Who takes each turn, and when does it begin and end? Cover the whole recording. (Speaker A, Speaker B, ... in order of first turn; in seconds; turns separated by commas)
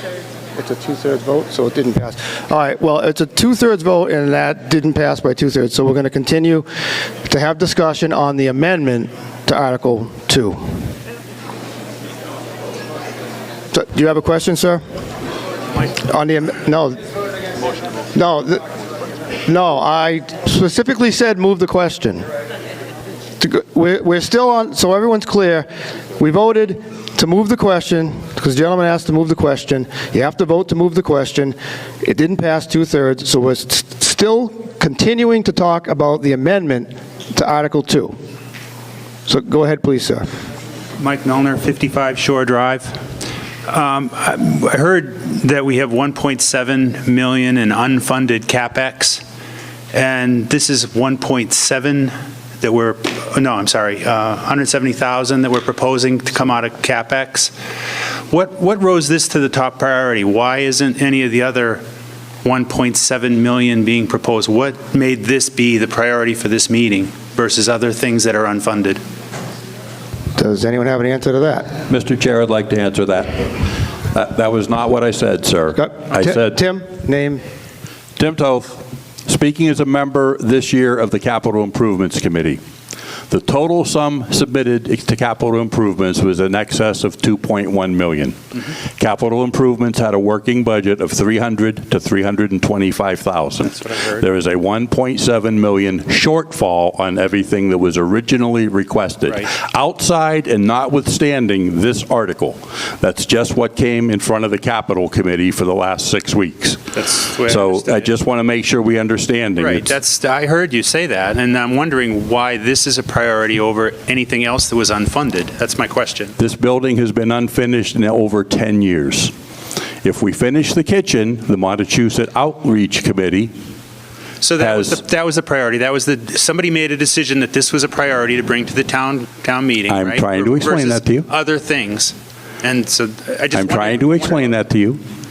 Speaker A: 0.6-6.7, Speaker A: 7.2-10.6, Speaker A: 13.7-14.8, Speaker A: 15.9-17.0, Speaker A: 18.1-18.6, Speaker A: 19.4-22.2, Speaker A: 23.4-38.1, Speaker A: 39.3-40.3, Speaker B: 41.0-43.0, Speaker B: 43.7-49.2, Speaker B: 49.9-57.5, Speaker B: 58.3-61.8, Speaker B: 62.4-69.0, Speaker A: 70.3-71.7, Speaker C: 71.9-76.6, Speaker A: 75.8-77.4, Speaker C: 78.2-82.6, Speaker C: 83.3-88.4, Speaker C: 89.0-106.8, Speaker B: 93.8-94.2, Speaker B: 107.0-108.1, Speaker C: 107.4-109.9, Speaker B: 109.5-116.3, Speaker C: 116.4-119.3, Speaker C: 120.0-123.5, Speaker B: 124.4-134.5, Speaker C: 124.6-125.0, Speaker C: 129.9-131.3, Speaker C: 133.5-135.0